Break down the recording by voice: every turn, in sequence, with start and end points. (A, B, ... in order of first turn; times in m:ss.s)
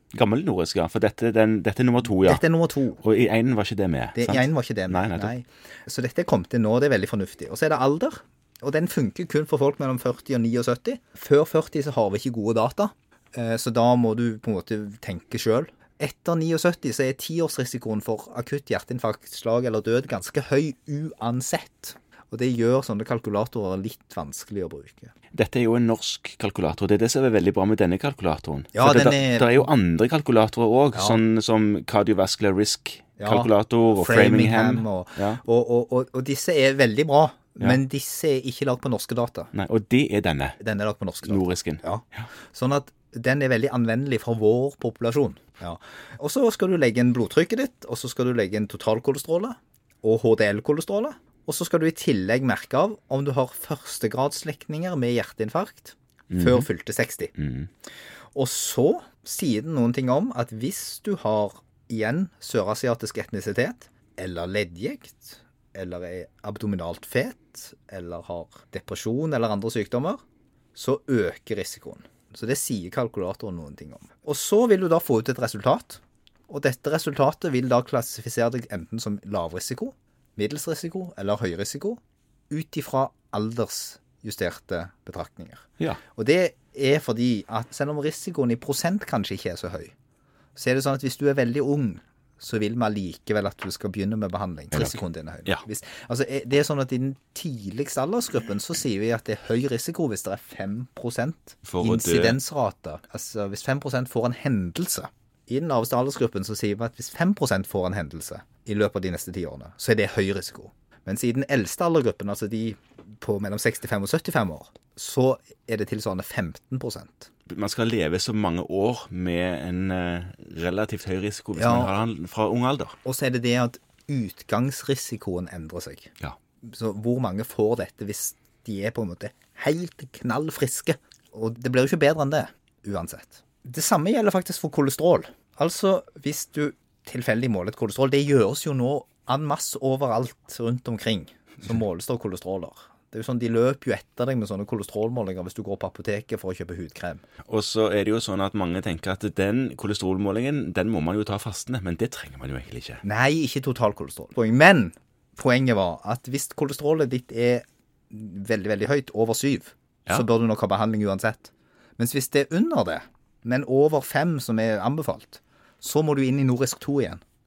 0:00.1-0:02.4 A
0:02.1-0:03.0 B
0:03.0-0:05.3 A
0:04.1-0:25.1 B
0:25.3-0:35.4 A
0:28.7-0:29.7 B
0:30.9-0:31.2 B
0:33.2-0:39.5 B
0:39.5-0:40.6 A
0:40.6-0:57.3 B
0:41.2-0:42.3 A
0:56.3-0:56.7 A
0:57.4-0:57.7 A
0:58.3-1:10.2 B
1:10.7-1:29.9 B
1:30.6-1:57.3 B
1:34.7-1:35.6 A
1:41.6-1:42.4 A
1:57.5-2:02.9 A
2:01.6-2:01.9 B
2:03.0-2:06.1 B
2:06.6-2:27.2 B
2:27.5-2:33.0 A
2:33.0-2:47.2 B